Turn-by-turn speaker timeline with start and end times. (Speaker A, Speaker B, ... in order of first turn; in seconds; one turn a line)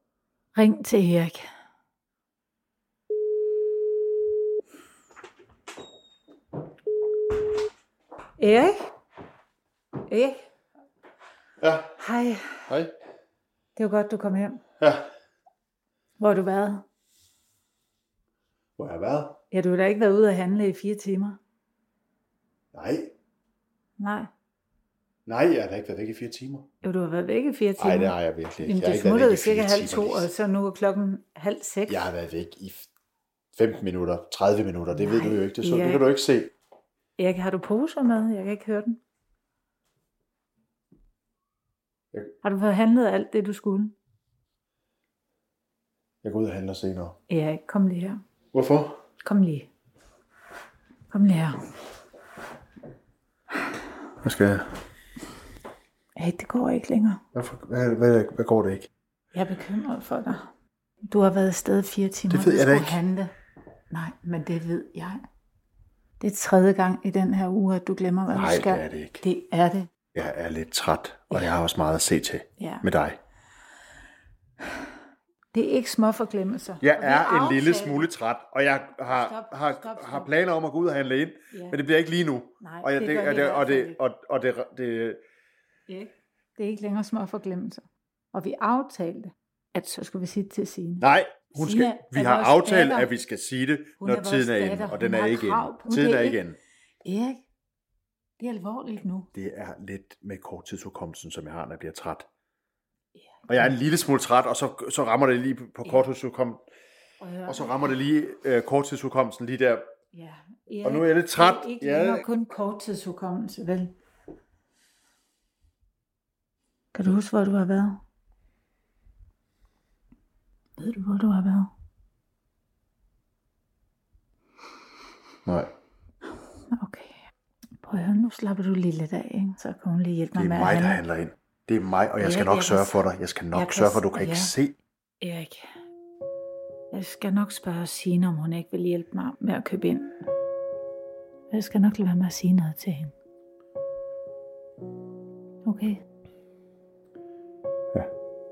Speaker A: 0.6-1.5
Speaker A: 8.4-8.9
Speaker A: 10.1-10.4
Speaker B: 11.6-12.0
Speaker A: 12.0-12.7
Speaker B: 12.7-12.9
Speaker A: 13.8-14.6
Speaker B: 14.8-15.1
Speaker A: 16.2-16.9
Speaker B: 18.8-19.4
Speaker A: 19.5-21.4
Speaker B: 22.7-23.1
Speaker A: 24.0-24.3
Speaker B: 25.3-26.7
Speaker A: 26.8-32.1
Speaker B: 27.8-30.3
Speaker B: 31.9-32.9
Speaker B: 33.5-36.5
Speaker A: 34.9-36.1
Speaker A: 37.2-39.0
Speaker A: 42.4-43.9
Speaker B: 46.2-47.2
Speaker A: 47.3-48.2
Speaker B: 48.5-49.0
Speaker A: 49.2-49.7
Speaker A: 51.1-51.6
Speaker B: 54.2-54.7
Speaker A: 56.2-57.2
Speaker B: 57.3-58.9
Speaker A: 59.3-60.5
Speaker A: 61.1-63.3
Speaker B: 62.3-63.0
Speaker A: 63.9-65.2
Speaker A: 66.2-69.9
Speaker B: 68.3-69.2
Speaker B: 70.1-73.2
Speaker A: 72.6-72.9
Speaker A: 75.5-78.1
Speaker B: 76.8-85.2
Speaker A: 79.0-80.3
Speaker A: 81.5-81.8
Speaker A: 82.6-84.0
Speaker A: 85.9-93.1
Speaker B: 91.0-96.6
Speaker A: 94.0-96.4
Speaker A: 97.0-97.4
Speaker A: 98.4-99.3
Speaker B: 99.3-102.3
Speaker A: 103.2-103.6
Speaker B: 103.5-106.6
Speaker A: 107.2-107.8
Speaker B: 107.5-109.9
Speaker A: 110.1-113.9
Speaker B: 110.8-112.3
Speaker A: 116.9-118.0
Speaker A: 120.8-121.7
Speaker A: 126.7-127.2
Speaker A: 127.8-131.0
Speaker B: 130.3-134.8
Speaker A: 132.2-133.0
Speaker A: 133.5-134.5
Speaker A: 135.2-135.7
Speaker A: 136.9-140.2
Speaker A: 141.5-143.1
Speaker A: 145.7-146.0